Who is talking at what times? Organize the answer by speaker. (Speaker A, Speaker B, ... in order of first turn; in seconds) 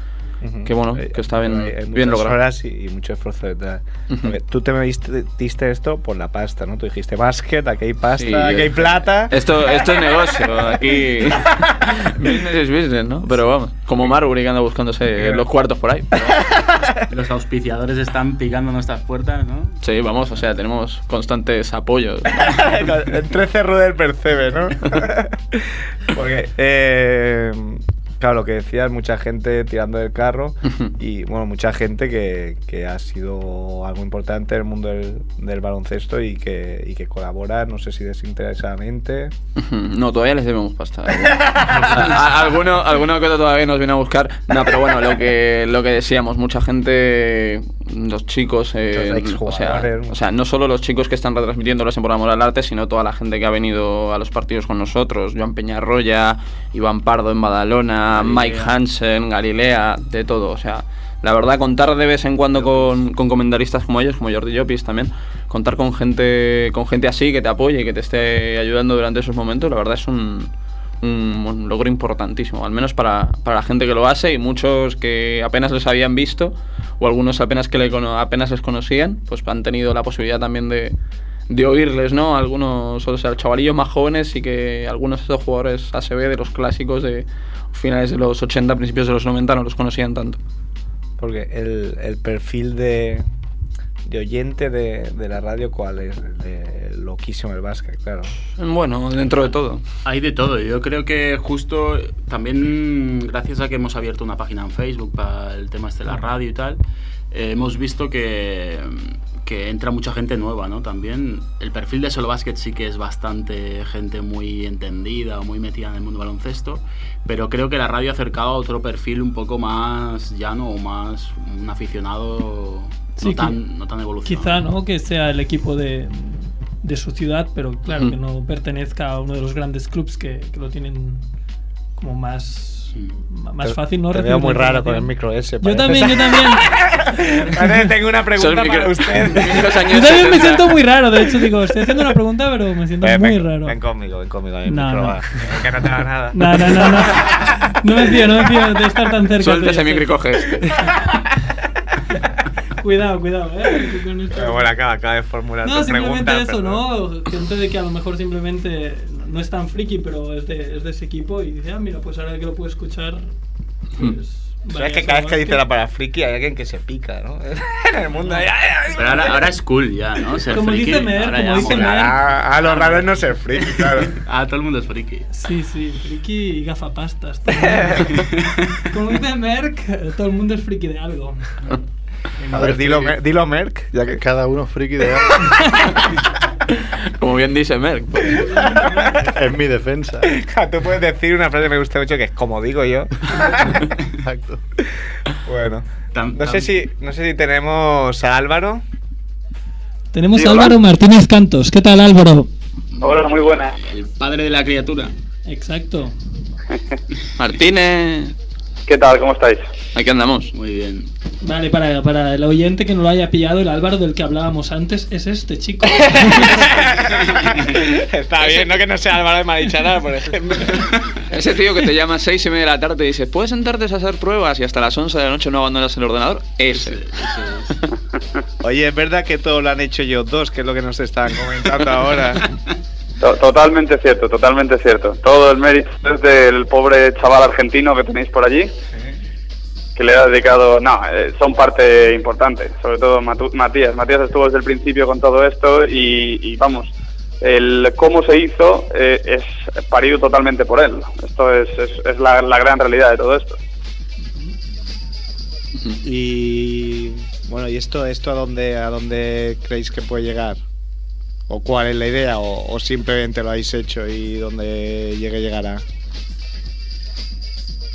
Speaker A: 0.4-10.6, 15.2-15.4, 16.3-17.0, 22.4-39.3, 48.9-50.2, 91.2-93.3, 94.1-98.3, 133.6-139.8, 143.0-147.7, 154.3-156.8, 164.7-169.4, 171.6-174.2, 177.6-178.1, 182.5-184.2, 188.2-189.2, 190.2-193.8, 194.9-198.8, 215.8-221.2, 228.6-232.4, 256.0-260.6, 261.5-265.8
Speaker B: 0.7-2.4, 4.1-4.3, 8.1-16.1, 19.8-22.6, 39.6-81.0, 81.5-90.4, 98.6-99.8, 127.9-128.1, 138.4-140.7, 149.4-150.8, 186.8-188.4, 207.4-208.3, 209.9-210.5, 218.4-218.7, 221.3-227.0
Speaker C: 17.1-19.8, 58.2-58.7, 62.6-62.9, 100.0-106.8, 107.3-124.6, 168.9-175.3, 178.1-178.8, 196.1-196.7, 202.9-205.1, 210.5-211.1, 217.0-217.6, 226.7-227.8, 232.5-232.7
Speaker D: 123.2-123.6, 124.3-131.2, 132.0-135.1, 135.6-136.7, 139.9-143.8, 144.7-145.2, 146.3-150.1, 152.8-154.7, 155.6-163.2, 163.9-165.6, 170.5-172.2, 175.3-178.3, 178.9-181.8, 188.4-189.3, 200.1-202.5, 205.5-206.2, 211.4-216.7
Speaker E: 182.5-183.2, 184.1-185.7, 189.2-190.3, 194.2-194.6
Speaker F: 200.4-200.7, 203.0-203.8, 208.9-209.7, 233.2-238.7, 240.0-253.6